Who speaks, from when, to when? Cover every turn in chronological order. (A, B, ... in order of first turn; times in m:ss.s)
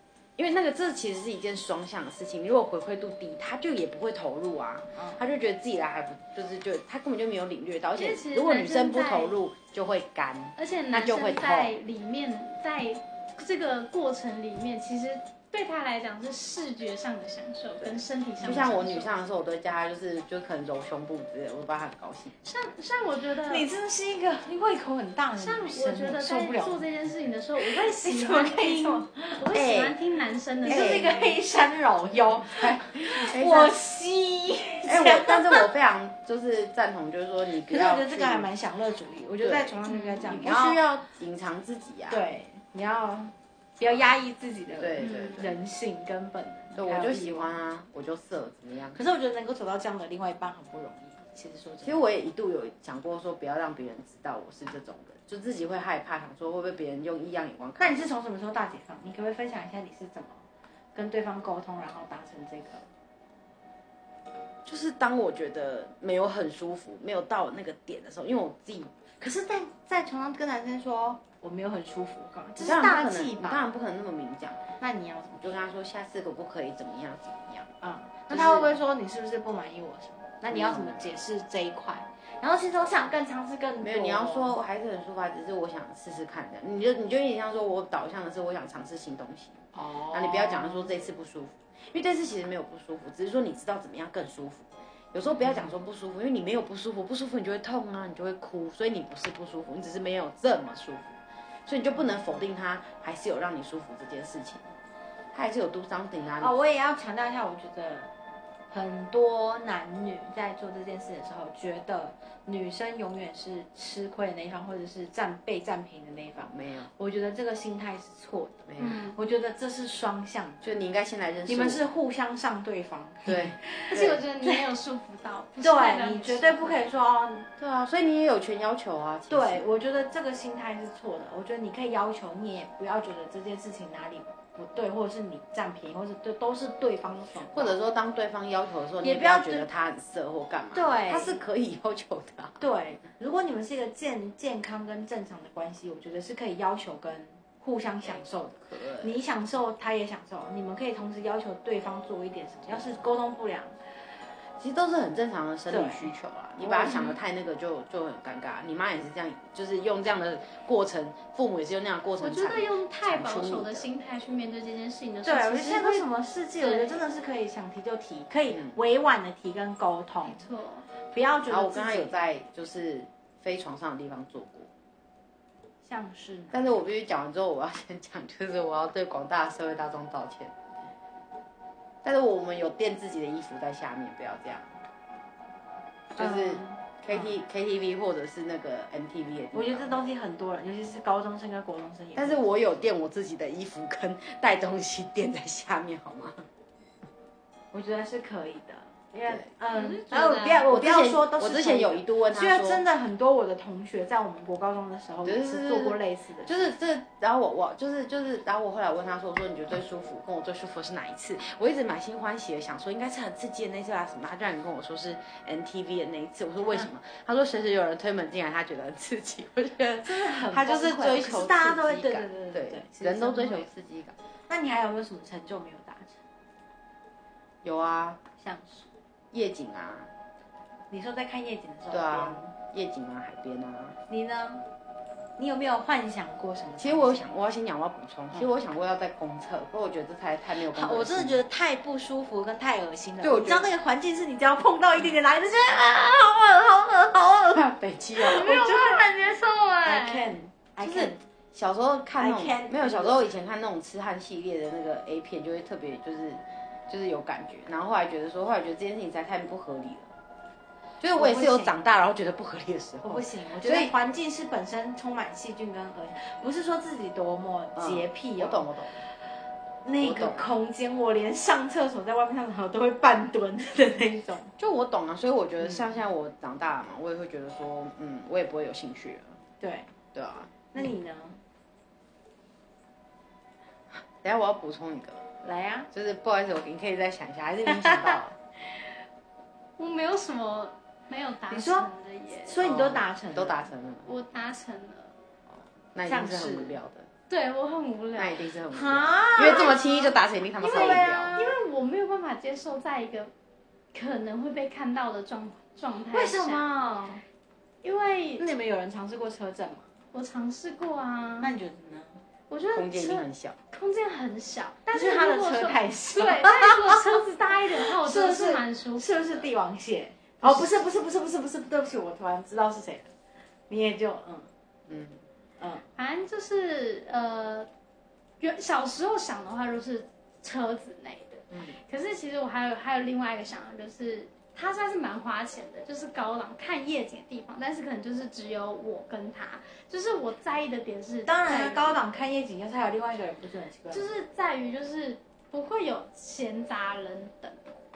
0:00.4-0:11.7 A
0:04.9-0:05.2 B
0:08.0-0:09.4 C
0:10.6-0:19.1 C
0:17.8-0:22.4 A
0:22.4-0:23.7 C
0:23.5-0:26.8 B
0:25.4-0:31.4 C
0:27.6-0:29.4 B
0:29.5-0:30.0 A
0:30.6-0:35.6 B
0:30.6-0:31.1 A
0:32.5-0:33.7 A
0:34.8-0:38.5 A
0:37.7-0:40.8 B
0:39.4-0:42.2 A
0:39.8-0:40.4 C
0:42.1-0:47.5 B
0:44.8-0:45.5 A
0:45.0-0:45.5 C
0:46.7-0:49.0 A
0:48.9-0:52.0 B
0:51.8-0:58.1 A
0:57.8-1:00.4 B
1:00.9-1:02.9 B
1:04.6-1:08.9 A
1:09.2-1:13.6 B
1:12.6-1:14.6 A
1:14.8-1:15.6 B
1:15.4-1:17.7 A
1:17.8-1:24.6 B
1:18.3-1:18.8 A
1:20.5-1:21.1 A
1:23.8-1:44.7 A
1:29.7-1:30.9 B
1:35.3-1:35.7 B
1:45.3-1:46.5 A
1:46.4-1:48.1 B
1:48.7-2:00.6 B
1:56.5-1:56.9 A
1:58.7-1:59.0 A
1:58.8-1:59.2 C
2:00.6-2:01.8 A
2:01.5-2:04.7 B
2:03.2-2:04.2 A
2:03.9-2:06.8 C
2:05.6-2:07.5 B
2:07.6-2:09.7 A
2:09.3-2:17.7 B
2:17.5-2:22.6 A
2:19.0-2:19.7 B
2:20.7-2:21.4 B
2:22.6-2:33.8 B
2:28.0-2:29.1 A
2:34.6-2:43.9 A
2:35.7-2:37.0 B
2:36.9-2:37.2 C
2:42.2-2:46.0 C
2:45.2-2:50.4 B
2:46.6-2:47.0 C
2:48.5-2:48.8 A
2:50.2-2:50.9 C
2:51.1-2:52.2 B
2:51.5-2:54.7 A
2:55.8-2:56.8 B
2:56.5-3:00.6 A
3:02.0-3:04.8 A
3:06.1-3:10.0 A
3:06.2-3:07.3 B
3:09.5-3:12.4 B
3:12.2-3:16.4 A
3:17.7-3:26.7 B
3:19.7-3:20.7 C
3:20.6-3:22.8 A
3:25.2-3:44.2 A
3:40.0-3:43.7 B
3:44.5-3:46.2 B
3:47.6-3:48.2 A
3:48.4-3:48.9 B
3:49.3-3:50.1 A
3:50.9-3:52.5 B
3:51.9-3:54.0 A
3:54.1-3:54.6 B
3:55.4-3:57.3 B
3:56.8-4:01.4 A
4:00.7-4:07.6 B
4:03.2-4:03.7 A
4:07.5-4:08.5 A
4:08.2-4:09.1 B
4:08.2-4:10.3 C
4:09.8-4:11.2 B
4:10.8-4:20.2 A
4:12.2-4:13.3 B
4:21.0-4:23.9 A
4:21.1-4:21.7 B
4:23.0-4:28.6 B
4:27.8-4:29.0 A
4:29.8-4:34.5 B
4:30.0-4:30.5 A
4:34.6-4:39.4 A
4:39.6-4:39.9 B
4:40.1-4:40.5 A
4:40.7-4:41.4 B
4:44.2-4:45.2 A
4:45.4-4:45.9 B
4:45.9-4:48.4 A
4:47.8-4:48.1 B
4:49.8-4:52.6 C
4:51.5-4:51.9 B
4:52.4-4:53.6 B
4:52.6-4:54.1 A
4:54.0-4:55.1 C
4:55.9-4:57.1 A
4:56.0-4:56.8 B
4:57.3-4:58.4 C
4:58.2-5:01.4 A
4:58.7-5:00.0 B
4:59.4-5:03.3 C
5:00.6-5:01.5 B
5:03.9-5:06.7 C
5:06.1-5:07.2 B
5:07.8-5:08.4 C
5:08.4-5:09.9 B
5:10.1-5:11.5 C
5:11.4-5:12.2 B
5:12.5-5:19.4 C
5:12.7-5:13.6 A
5:14.9-5:17.0 B
5:18.0-5:23.1 B
5:23.7-5:24.5 B
5:24.9-5:25.2 A
5:25.6-5:25.8 B
5:26.0-5:27.7 C
5:28.4-5:42.0 C
5:31.5-5:31.8 A
5:41.2-5:44.1 B
5:43.9-5:47.6 C